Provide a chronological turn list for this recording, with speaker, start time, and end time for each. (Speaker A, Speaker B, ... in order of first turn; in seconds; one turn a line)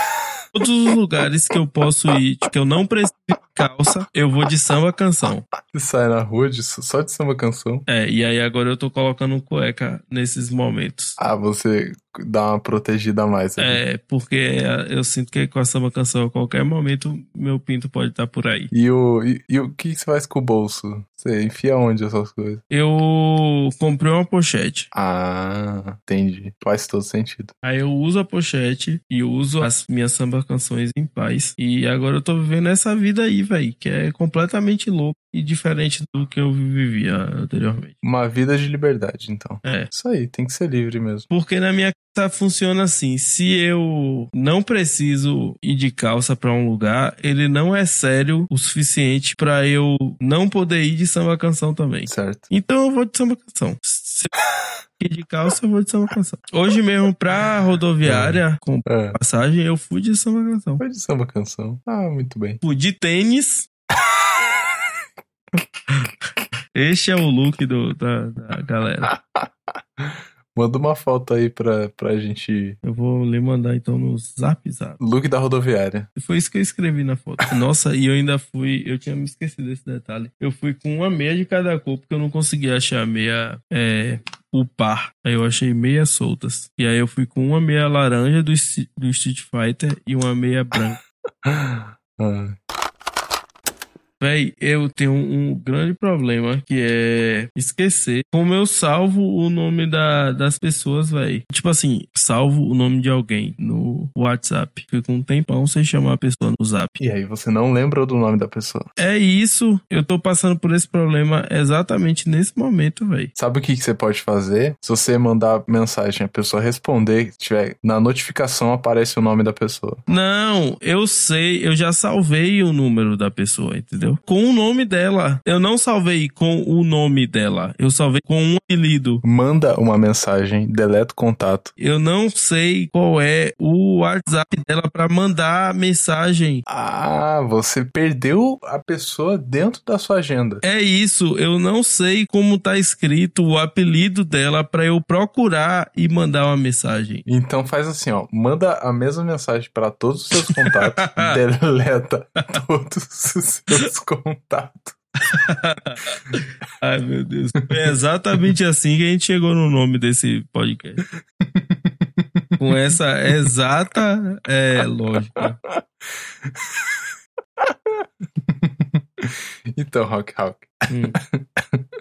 Speaker A: 0.5-5.5
Speaker B: 5.6-7.8
Speaker A: 7.9-11.2
Speaker B: 11.2-13.8
Speaker A: 13.6-18.7
Speaker B: 18.7-22.6
Speaker A: 22.7-24.9
Speaker B: 24.9-27.5
Speaker A: 27.6-38.0
Speaker B: 38.0-41.3
Speaker A: 39.6-39.9
Speaker A: 41.3-54.3
Speaker B: 52.1-52.5
Speaker A: 55.0-60.8
Speaker B: 58.0-59.2
Speaker B: 60.8-62.6
Speaker A: 62.6-63.7
Speaker A: 66.7-69.1
Speaker B: 69.1-72.8
Speaker A: 72.8-75.0
Speaker B: 75.0-76.1
Speaker A: 76.2-91.0
Speaker B: 91.4-92.6
Speaker A: 94.2-106.9
Speaker B: 107.0-108.9
Speaker A: 109.0-113.3
Speaker B: 113.3-120.0
Speaker A: 120.1-129.2
Speaker B: 129.2-131.7
Speaker A: 131.8-136.6
Speaker B: 136.7-140.6
Speaker A: 140.6-147.2
Speaker B: 147.3-155.0
Speaker A: 150.4-151.4
Speaker A: 155.3-161.0
Speaker B: 161.4-162.6
Speaker A: 162.6-165.6
Speaker B: 165.4-165.8
Speaker B: 166.5-167.0
Speaker B: 167.6-171.8
Speaker A: 170.9-171.2